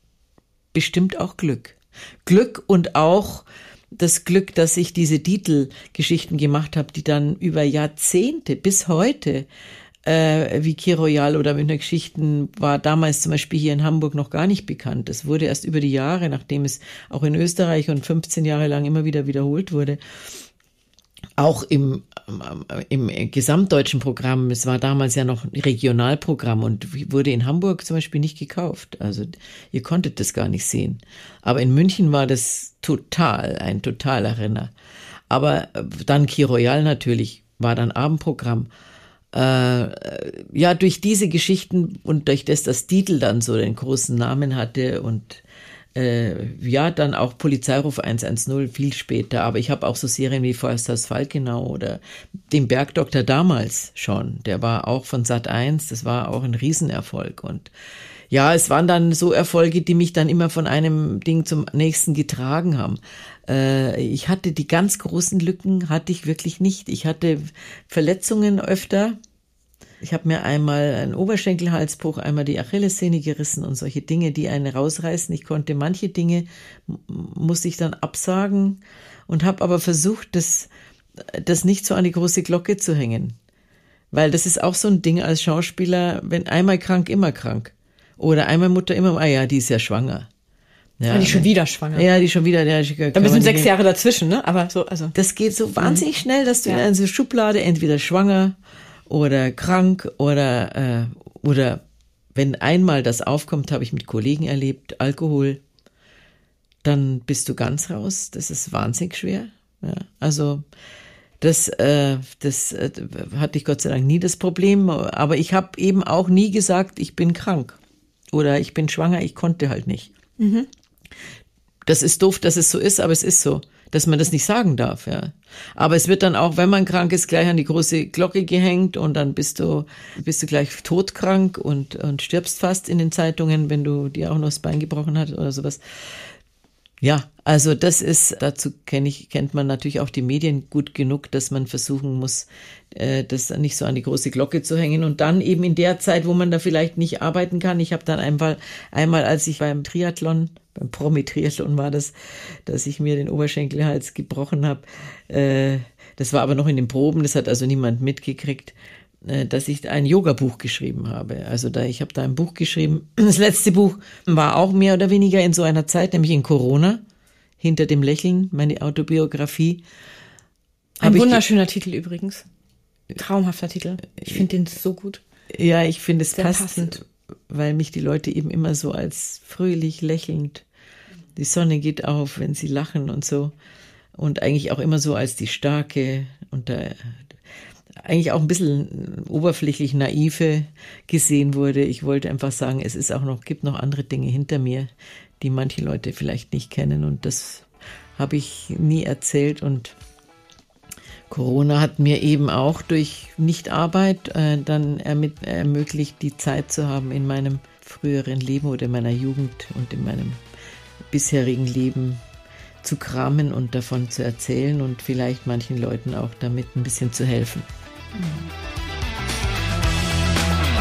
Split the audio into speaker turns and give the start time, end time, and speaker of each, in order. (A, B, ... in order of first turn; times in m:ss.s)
0:00.7-0:09.5 A
0:10.0-0:20.0 A
0:21.4-0:34.7 A
0:35.3-0:38.7 A
0:39.3-0:45.4 A
0:46.0-0:57.7 A
0:58.3-1:09.2 A
1:10.0-1:23.4 A
1:24.1-1:30.3 A
1:31.0-1:33.7 A
1:31.1-1:32.1 B
1:33.1-1:35.2 B
1:35.2-1:38.6 A
1:39.1-1:41.8 A
1:42.4-1:45.6 A
1:46.8-1:50.6 A
1:51.4-1:57.8 A
1:58.3-2:00.1 A
2:00.4-2:00.7 B
2:01.9-2:16.3 A
2:17.0-2:32.1 A
2:32.7-2:47.0 A
2:47.6-2:49.8 A
2:51.0-2:51.4 A
2:51.0-2:52.4 B
2:53.1-2:55.2 B
2:55.5-3:00.6 A
2:56.3-2:57.0 B
3:01.4-3:03.5 A
3:04.2-3:07.2 A
3:08.0-3:20.0 A
3:21.3-3:30.4 A
3:31.1-3:32.2 A
3:32.8-3:37.7 A
3:38.2-3:38.4 B